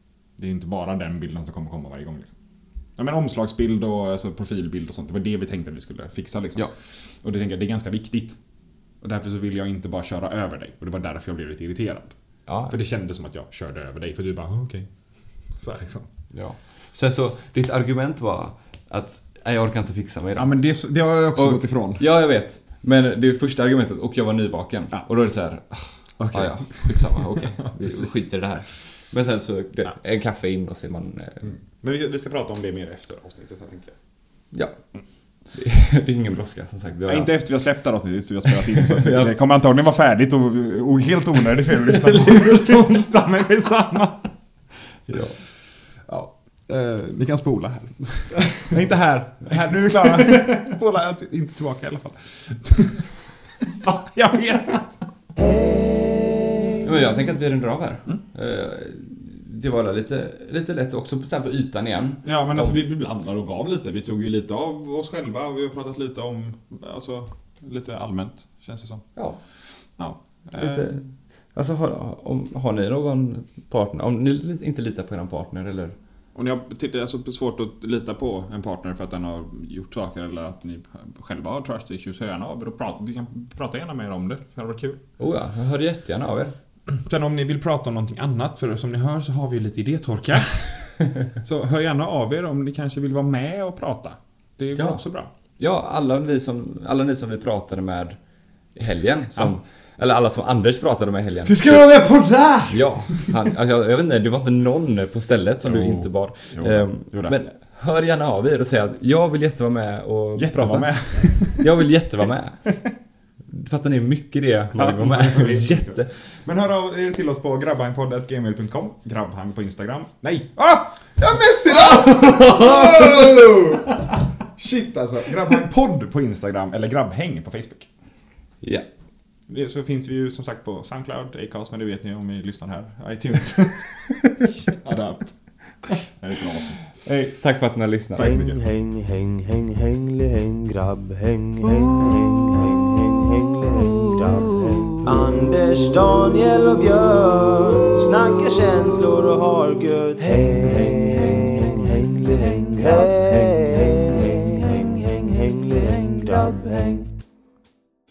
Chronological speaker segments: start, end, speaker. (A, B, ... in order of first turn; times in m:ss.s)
0:00.4-0:02.4 A
0:03.0-0:08.4 A
0:09.0-0:12.2 A
0:12.5-0:12.7 B
0:12.7-0:14.9 A
0:15.5-0:16.1 A
0:16.3-0:20.5 B
0:20.4-0:22.0 A
0:21.4-0:31.5 B
0:26.2-0:28.2 A
0:31.4-0:34.0 A
0:34.5-0:34.8 B
0:35.5-0:37.4 B
0:37.1-0:44.3 A
0:38.5-0:39.4 B
0:41.9-0:42.4 B
0:45.1-0:45.4 B
0:46.1-0:55.1 A
0:56.8-1:02.8 B
1:02.2-1:09.1 A
1:09.2-1:09.4 B
1:10.0-1:11.0 A
1:10.5-1:16.0 B
1:16.4-1:25.0 A
1:25.2-1:26.6 B
1:26.9-1:35.3 A
1:34.8-1:35.0 B
1:35.6-1:38.2 B
1:38.8-1:41.9 B
1:41.4-1:43.5 A
1:42.7-1:52.7 B
1:45.6-1:47.4 A
1:50.4-1:51.7 A
1:53.5-1:56.1 B
1:54.8-2:07.9 A
2:09.5-2:15.3 A
2:15.8-2:16.9 A
2:17.0-2:18.3 B
2:18.2-2:18.6 A
2:18.2-2:37.1 C